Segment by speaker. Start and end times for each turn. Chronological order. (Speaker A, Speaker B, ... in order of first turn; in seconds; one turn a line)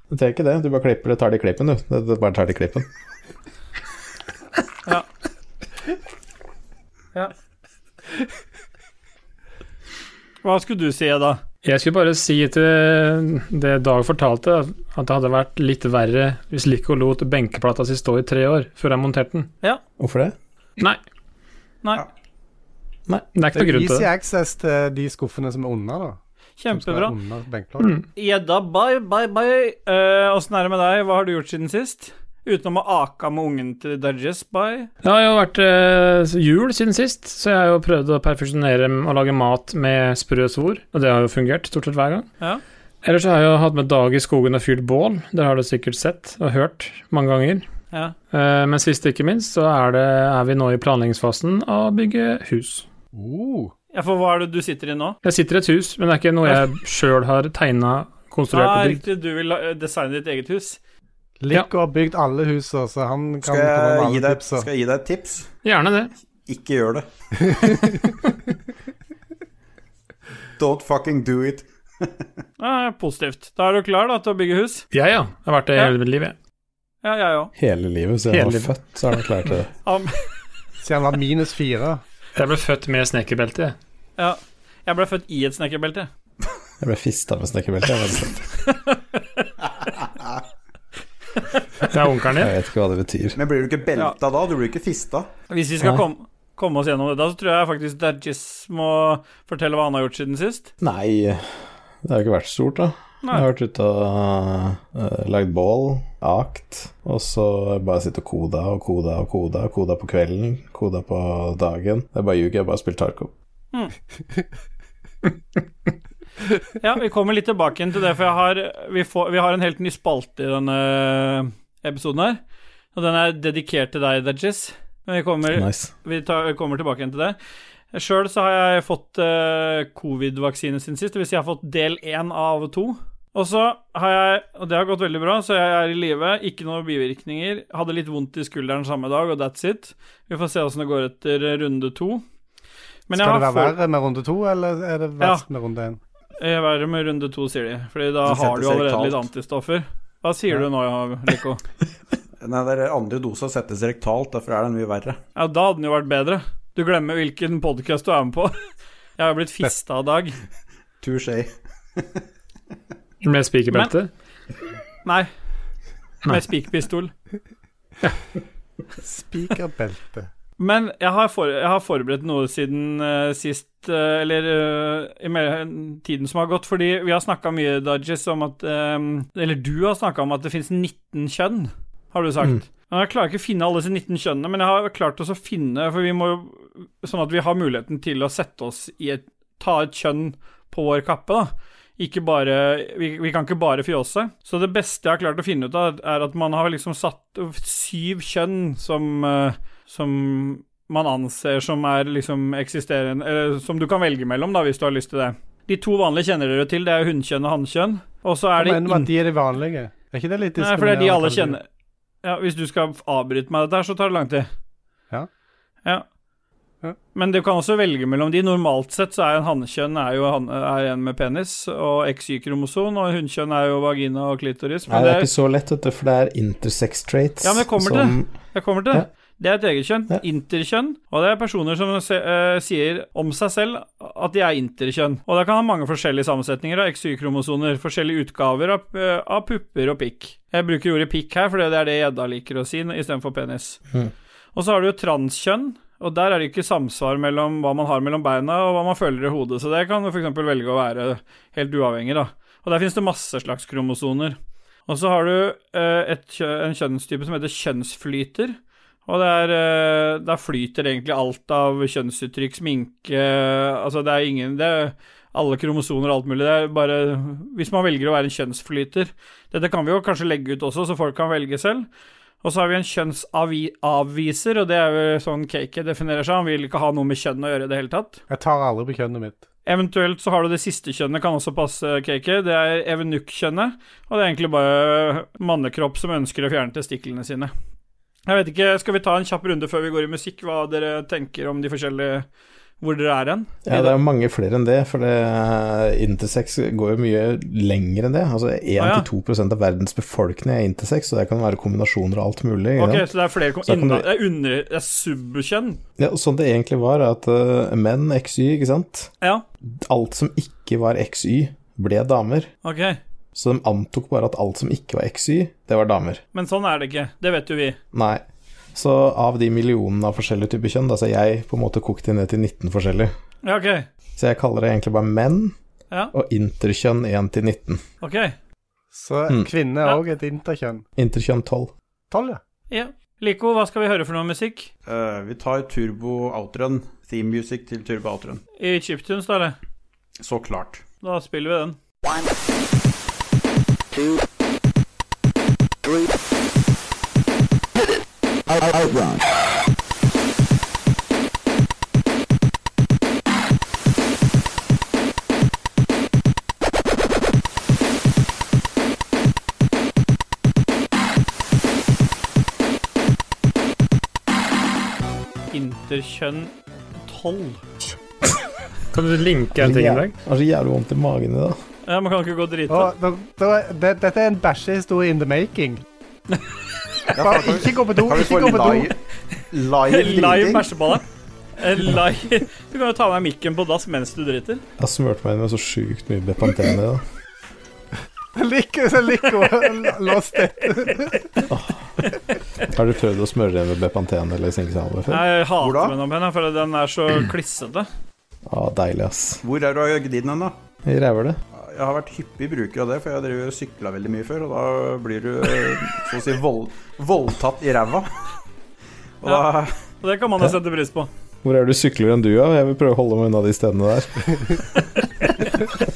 Speaker A: 0.1-2.9
Speaker B: 10.4-11.4
Speaker C: 11.6-19.5
Speaker A: 20.0-20.4
Speaker C: 23.3-24.1
Speaker D: 23.5-26.2
Speaker B: 26.6-27.1
Speaker D: 26.7-28.0
Speaker B: 28.2-34.9
Speaker C: 35.0-42.3
Speaker C: 43.0-47.6
Speaker C: 48.3-52.9
Speaker D: 53.1-53.7
Speaker B: 53.9-55.2
Speaker C: 55.2-59.0
Speaker B: 58.5-60.8
Speaker D: 61.4-64.7
Speaker E: 63.4-65.5
Speaker C: 65.6-66.1
Speaker E: 66.5-67.1
Speaker E: 70.6-72.2
Speaker B: 72.6-74.8
Speaker C: 74.9-76.3
Speaker B: 77.0-77.5
Speaker A: 77.6-79.7
Speaker C: 78.3-78.7
Speaker B: 79.8-80.1
Speaker D: 80.8-82.0
Speaker C: 82.4-83.7
Speaker B: 84.2-86.1
Speaker A: 86.8-88.5
Speaker B: 88.8-89.4
Speaker C: 91.9-92.5
Speaker A: 92.3-93.4
Speaker E: 93.4-95.3
Speaker B: 95.5-100.7
Speaker A: 100.8-101.4
Speaker A: 102.0-113.3
Speaker B: 116.8-122.4
Speaker B: 122.9-127.4
Speaker A: 125.5-125.9
Speaker B: 127.9-142.2
Speaker B: 143.1-143.8
Speaker D: 143.2-146.0
Speaker B: 146.4-151.6
Speaker E: 148.2-149.2
Speaker E: 152.4-155.2
Speaker B: 155.4-158.6
Speaker B: 159.2-160.4
Speaker E: 161.0-162.2
Speaker C: 163.2-164.1
Speaker B: 165.0-165.3
Speaker B: 166.3-167.1
Speaker D: 169.0-170.3
Speaker B: 170.6-209.1
Speaker D: 208.6-211.6
Speaker B: 210.6-211.6
Speaker B: 212.2-214.5
Speaker B: 217.2-225.3
Speaker A: 224.9-228.3
Speaker B: 227.4-243.8
Speaker B: 244.6-271.9
Speaker B: 272.4-278.2
Speaker D: 278.3-279.4
Speaker B: 279.7-287.5
Speaker B: 288.3-292.3
Speaker B: 292.8-294.0
Speaker A: 293.7-303.1
Speaker B: 298.8-299.1
Speaker B: 302.8-305.8
Speaker A: 303.6-304.1
Speaker A: 306.0-309.1
Speaker A: 309.6-312.5
Speaker B: 312.6-313.0
Speaker A: 313.4-316.2
Speaker B: 316.3-317.8
Speaker A: 317.9-318.2
Speaker A: 318.8-323.1
Speaker B: 323.4-323.9
Speaker A: 324.2-325.5
Speaker A: 326.1-327.8
Speaker B: 328.0-328.4
Speaker D: 328.9-330.9
Speaker A: 331.0-331.7
Speaker D: 332.1-332.4
Speaker B: 332.7-334.7
Speaker E: 334.9-338.4
Speaker B: 338.6-339.6
Speaker E: 340.2-340.8
Speaker B: 341.0-341.8
Speaker B: 365.5-366.5
Speaker B: 367.0-367.6
Speaker C: 368.9-370.1
Speaker A: 369.6-371.6
Speaker B: 371.9-372.9
Speaker D: 372.7-375.8
Speaker E: 377.1-378.9
Speaker D: 377.2-378.9
Speaker E: 379.5-380.7
Speaker B: 379.9-381.1
Speaker B: 381.6-384.6
Speaker A: 384.8-387.0
Speaker D: 388.4-391.4
Speaker A: 391.5-391.9
Speaker A: 392.7-395.3
Speaker B: 395.1-397.9
Speaker E: 395.6-396.0
Speaker A: 398.5-399.4
Speaker E: 399.4-400.5
Speaker A: 400.9-401.4
Speaker E: 401.5-408.1
Speaker E: 409.2-409.7
Speaker B: 410.0-411.1
Speaker A: 411.4-414.6